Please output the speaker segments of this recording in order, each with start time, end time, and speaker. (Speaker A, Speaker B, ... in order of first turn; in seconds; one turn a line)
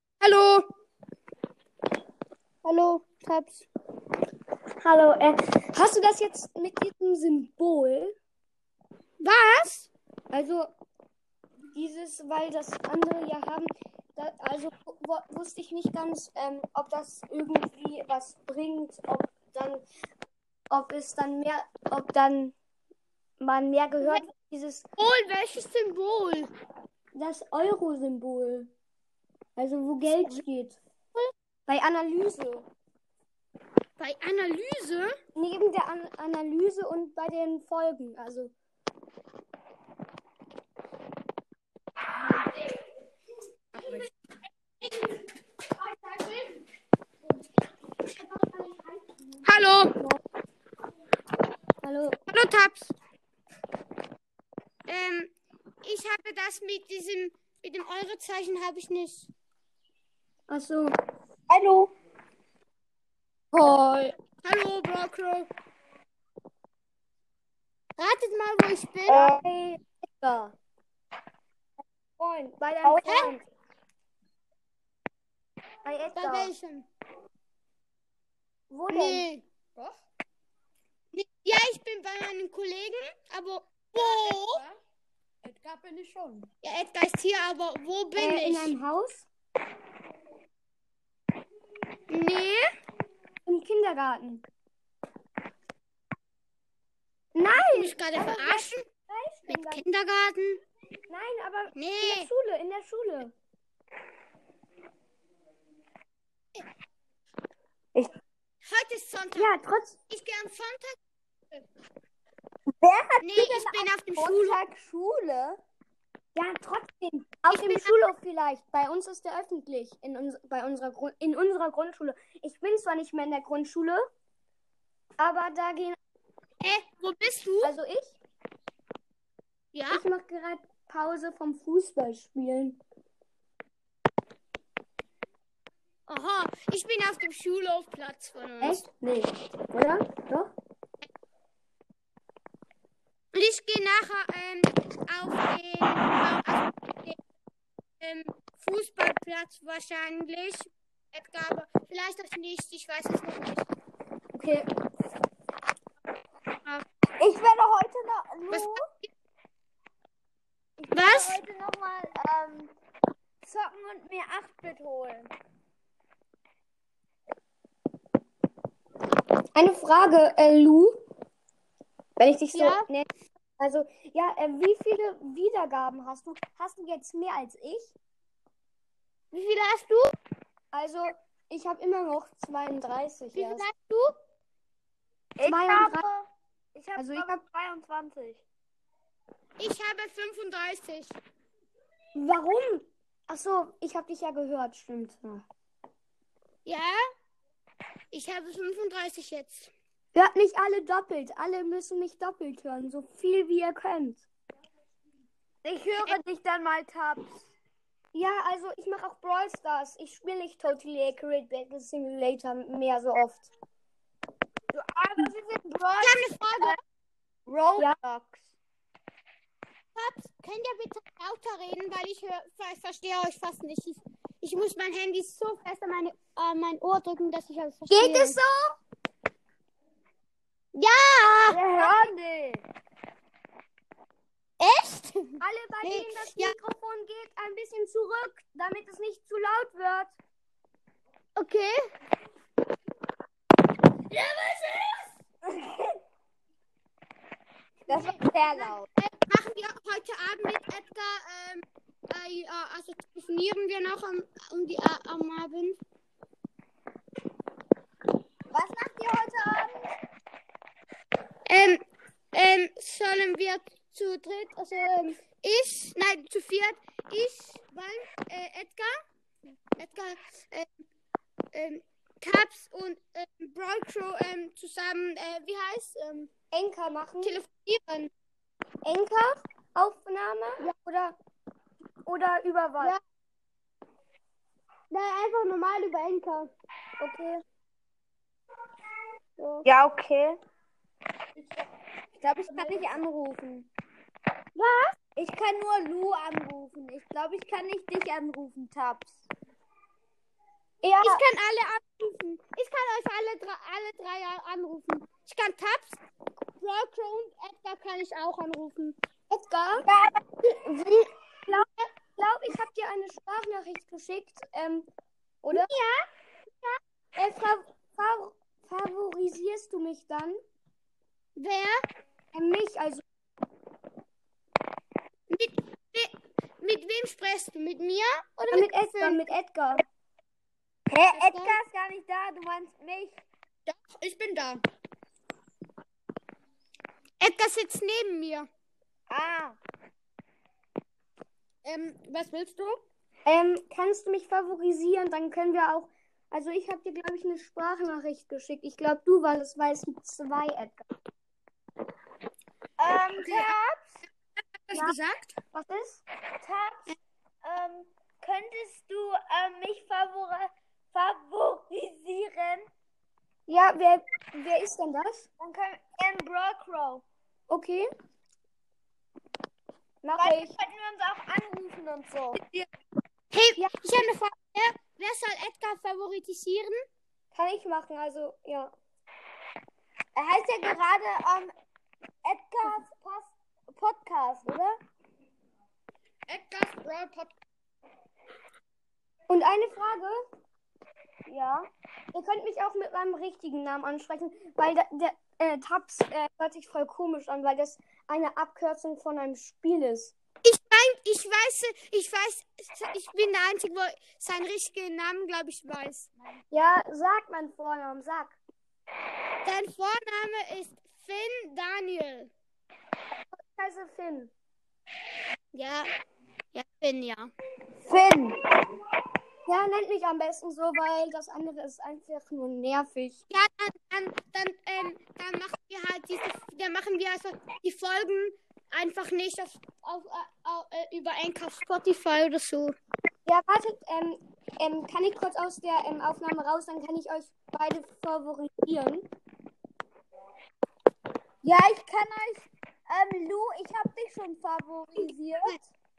Speaker A: 0.2-0.7
Speaker A: 2.6-3.6
Speaker B: 4.8-8.2
Speaker A: 9.2-9.9
Speaker B: 10.3-10.7
Speaker B: 11.7-19.8
Speaker B: 20.7-22.5
Speaker B: 23.4-24.9
Speaker A: 25.0-26.5
Speaker B: 27.1-28.7
Speaker B: 29.6-30.8
Speaker B: 31.7-32.7
Speaker A: 34.0-35.1
Speaker B: 35.3-38.5
Speaker A: 43.7-44.0
Speaker A: 44.8-45.2
Speaker A: 45.8-46.6
Speaker A: 48.4-48.7
Speaker A: 49.4-50.0
Speaker B: 51.8-52.2
Speaker A: 52.3-52.9
Speaker A: 54.9-59.3
Speaker B: 60.5-60.9
Speaker C: 61.5-61.9
Speaker C: 63.5-64.1
Speaker A: 64.4-65.5
Speaker A: 68.0-69.4
Speaker C: 69.1-69.4
Speaker B: 69.2-70.5
Speaker B: 72.2-73.4
Speaker C: 72.8-73.3
Speaker A: 73.0-73.3
Speaker B: 75.8-76.5
Speaker A: 76.1-76.9
Speaker B: 78.7-79.3
Speaker A: 78.9-79.4
Speaker A: 81.1-84.6
Speaker C: 84.0-84.8
Speaker C: 85.4-86.5
Speaker A: 86.6-88.7
Speaker B: 88.2-89.3
Speaker A: 92.1-92.7
Speaker B: 93.5-94.5
Speaker B: 97.3-99.8
Speaker A: 97.5-98.8
Speaker A: 99.5-100.6
Speaker B: 101.1-103.3
Speaker A: 101.8-102.3
Speaker A: 108.6-109.5
Speaker B: 109.3-110.0
Speaker A: 110.1-111.0
Speaker C: 112.8-115.6
Speaker A: 113.2-114.6
Speaker B: 116.3-124.0
Speaker A: 117.5-117.9
Speaker B: 125.2-126.0
Speaker A: 126.6-127.7
Speaker B: 127.6-128.2
Speaker A: 129.7-130.0
Speaker B: 129.9-132.8
Speaker A: 136.1-138.8
Speaker B: 138.6-140.5
Speaker A: 143.3-147.2
Speaker A: 148.0-153.7
Speaker C: 157.2-158.8
Speaker A: 158.5-159.1
Speaker C: 160.8-162.7
Speaker A: 160.9-161.4
Speaker C: 163.4-165.3
Speaker B: 169.5-171.0
Speaker B: 172.2-177.9
Speaker A: 172.5-172.8
Speaker A: 179.3-180.1
Speaker B: 180.7-183.7
Speaker A: 183.3-184.1
Speaker C: 185.4-188.4
Speaker B: 185.4-186.0
Speaker B: 186.9-187.5
Speaker A: 189.6-191.2
Speaker B: 192.1-195.4
Speaker A: 196.6-197.0
Speaker A: 198.1-199.7
Speaker B: 200.1-204.3
Speaker C: 205.6-207.5
Speaker B: 208.1-213.5
Speaker C: 214.7-216.8
Speaker A: 216.0-216.8
Speaker C: 217.5-218.5
Speaker A: 219.9-228.4
Speaker B: 227.9-228.8
Speaker A: 230.7-231.6
Speaker C: 231.5-232.7
Speaker B: 231.8-232.1
Speaker A: 234.6-236.5
Speaker B: 235.4-240.2
Speaker A: 241.3-241.8
Speaker A: 244.1-245.0
Speaker C: 245.6-245.9
Speaker C: 247.9-248.9
Speaker A: 247.9-255.8
Speaker C: 258.5-259.9
Speaker A: 261.4-261.8
Speaker A: 262.3-268.9
Speaker A: 269.8-270.7
Speaker A: 271.5-276.3
Speaker B: 276.5-277.4
Speaker A: 277.2-278.1
Speaker B: 278.8-281.2
Speaker B: 282.0-283.0
Speaker A: 284.9-286.5
Speaker B: 287.0-287.4
Speaker C: 289.6-290.4
Speaker C: 292.2-293.7
Speaker A: 294.6-294.9
Speaker C: 295.1-299.2
Speaker B: 300.8-301.2
Speaker A: 301.0-306.0
Speaker A: 306.6-308.9
Speaker B: 309.3-309.9
Speaker A: 309.8-311.1
Speaker B: 311.5-314.9
Speaker B: 315.4-315.7
Speaker A: 315.5-316.1
Speaker B: 317.1-320.4
Speaker A: 321.4-321.8
Speaker B: 322.3-323.0
Speaker A: 325.3-329.2
Speaker B: 328.5-329.8
Speaker C: 330.9-333.2
Speaker A: 331.1-331.6
Speaker A: 333.7-334.6
Speaker A: 337.2-338.5
Speaker C: 339.1-339.6
Speaker A: 341.6-342.8
Speaker B: 343.2-350.8
Speaker C: 352.8-354.0
Speaker A: 353.2-353.6
Speaker A: 354.7-355.4
Speaker B: 355.5-356.0
Speaker C: 356.4-362.6
Speaker B: 363.5-365.3
Speaker C: 365.4-367.0
Speaker B: 367.5-367.9
Speaker B: 370.0-370.5
Speaker C: 370.1-372.4
Speaker A: 373.3-376.8
Speaker B: 377.3-378.7
Speaker C: 380.1-381.5
Speaker C: 382.2-384.8
Speaker A: 386.3-387.2
Speaker B: 389.3-390.2
Speaker C: 391.3-391.6
Speaker B: 392.1-400.1
Speaker A: 400.4-406.1
Speaker B: 406.5-408.4
Speaker A: 409.4-412.3
Speaker B: 413.4-414.3
Speaker A: 415.5-415.9
Speaker A: 416.5-417.3
Speaker C: 417.8-418.5
Speaker B: 419.4-423.2
Speaker A: 423.3-432.8
Speaker B: 433.2-439.1
Speaker C: 441.4-445.6